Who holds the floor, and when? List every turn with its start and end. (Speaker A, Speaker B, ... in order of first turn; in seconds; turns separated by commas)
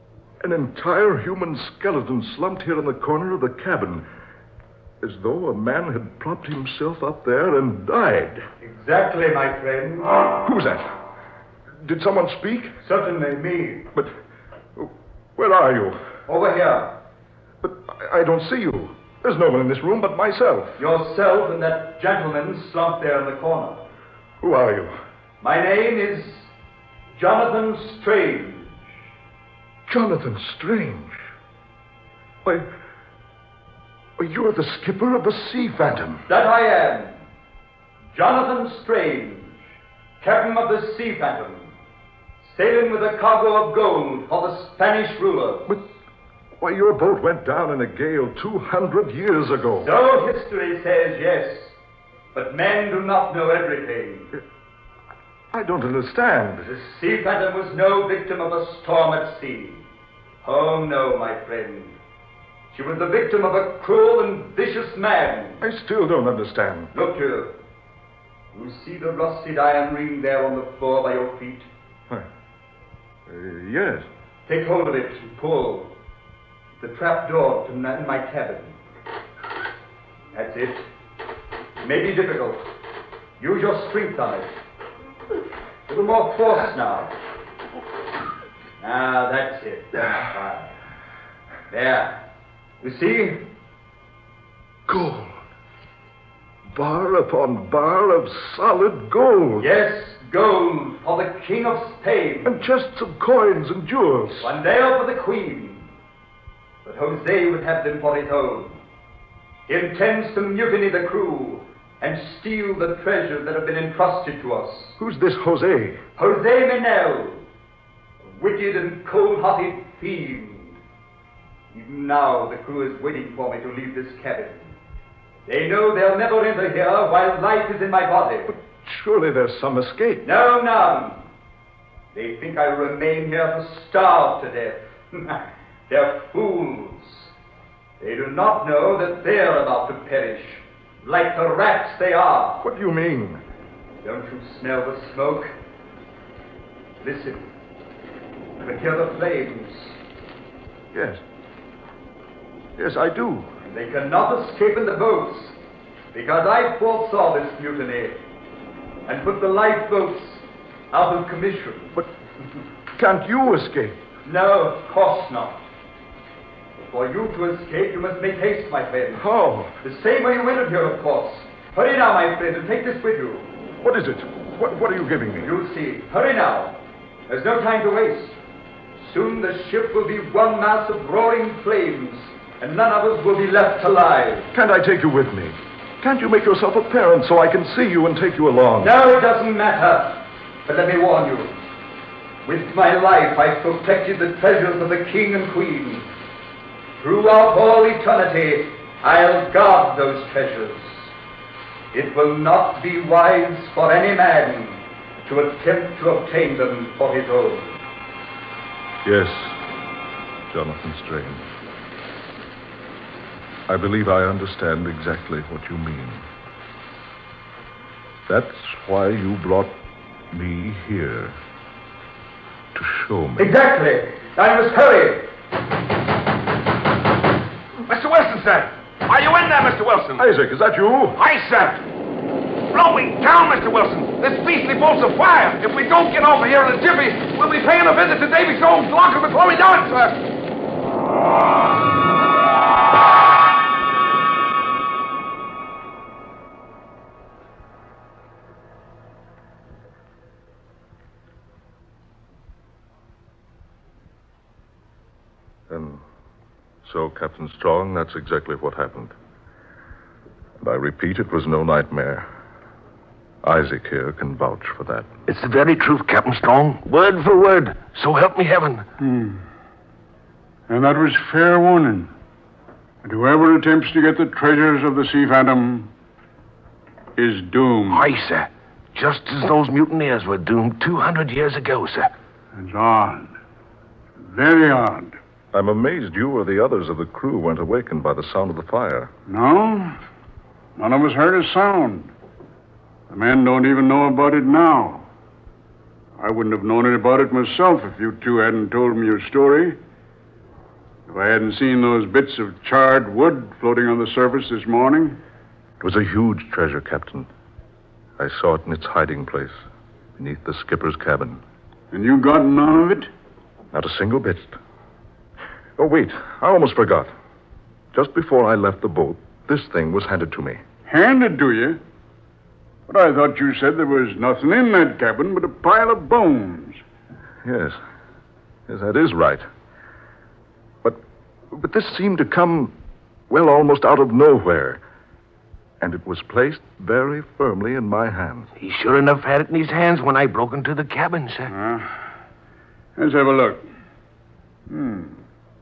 Speaker A: 0.4-4.1, Speaker A: 5.0-8.4, Speaker B: 8.6-10.2, Speaker A: 10.4-11.0, Speaker A: 11.8-12.8, Speaker B: 12.8-13.9, Speaker A: 14.8-16.0, Speaker B: 16.3-17.0, Speaker A: 17.6-20.8, Speaker B: 20.8-23.9, Speaker A: 24.4-24.9, Speaker B: 25.4-26.5, Speaker B: 27.1-28.8, Speaker A: 29.9-31.3, Speaker A: 34.2-36.2, Speaker B: 36.3-37.2, Speaker B: 38.1-39.6, Speaker B: 40.2-41.8, Speaker B: 42.4-45.8, Speaker A: 46.6-49.9, Speaker B: 49.8-51.8, Speaker B: 52.3-54.4, Speaker A: 55.5-56.7, Speaker B: 56.6-59.9, Speaker B: 60.4-62.0, Speaker B: 62.7-65.6, Speaker A: 65.6-66.9, Speaker B: 66.9-67.6, Speaker B: 68.5-71.7, Speaker A: 73.3-74.1, Speaker B: 74.5-76.0, Speaker B: 76.8-78.8, Speaker B: 80.3-80.9, Speaker B: 81.8-82.6, Speaker B: 83.4-84.5, Speaker B: 85.9-87.2, Speaker B: 88.8-90.7, Speaker B: 91.7-92.2, Speaker B: 92.8-93.5, Speaker A: 94.9-95.4, Speaker A: 96.7-99.7, Speaker B: 99.6-102.5, Speaker A: 102.5-104.5, Speaker B: 104.4-105.9, Speaker B: 106.8-108.8, Speaker B: 109.7-115.0, Speaker A: 115.0-116.0, Speaker B: 116.2-117.5, Speaker B: 118.2-120.8, Speaker B: 121.7-124.8, Speaker B: 125.5-128.6, Speaker A: 128.5-130.3, Speaker B: 130.2-131.3, Speaker B: 132.1-137.3, Speaker B: 138.0-142.7, Speaker A: 142.6-143.4, Speaker B: 144.0-145.5, Speaker B: 147.0-147.4, Speaker B: 148.6-150.0, Speaker A: 150.9-151.2, Speaker A: 152.8-153.5, Speaker B: 153.7-155.6, Speaker B: 156.1-158.2, Speaker B: 159.1-162.0, Speaker A: 163.0-164.0, Speaker B: 164.2-165.6, Speaker B: 166.8-169.3, Speaker A: 169.2-169.8, Speaker B: 169.8-173.5, Speaker A: 173.8-175.5, Speaker B: 175.4-178.4, Speaker B: 179.0-184.5, Speaker A: 184.5-188.9, Speaker B: 188.8-191.6, Speaker B: 192.4-196.1, Speaker B: 197.0-201.1, Speaker B: 201.9-207.8, Speaker A: 209.0-209.6, Speaker A: 210.5-211.5, Speaker A: 213.7-216.3, Speaker A: 218.3-219.8, Speaker A: 220.3-221.4, Speaker A: 222.7-223.5, Speaker B: 223.4-225.3, Speaker C: 227.9-230.3, Speaker A: 230.2-231.2, Speaker C: 231.2-231.9, Speaker C: 232.7-240.2, Speaker A: 255.7-256.0, Speaker A: 256.8-259.1, Speaker A: 260.6-262.3, Speaker A: 263.4-265.1, Speaker C: 265.3-268.9, Speaker D: 269.0-269.4, Speaker D: 270.7-272.1, Speaker D: 273.0-275.9, Speaker D: 277.2-278.1, Speaker C: 277.9-282.1, Speaker D: 282.5-283.4, Speaker D: 284.2-285.2, Speaker A: 285.5-289.1, Speaker D: 289.3-290.0, Speaker D: 290.8-292.1, Speaker D: 293.1-295.1, Speaker D: 296.2-299.8, Speaker D: 301.1-305.2, Speaker A: 305.8-307.3, Speaker A: 308.2-309.6, Speaker A: 310.2-311.4, Speaker D: 311.9-313.1, Speaker A: 313.7-314.6, Speaker A: 315.8-317.1, Speaker A: 317.9-320.6, Speaker D: 320.9-321.8, Speaker D: 322.9-326.8, Speaker A: 327.4-327.8, Speaker A: 328.7-329.4, Speaker A: 330.8-332.7, Speaker A: 333.3-334.8, Speaker A: 335.8-338.5, Speaker C: 338.6-341.5, Speaker D: 341.5-341.9, Speaker D: 343.0-343.6, Speaker D: 344.7-345.2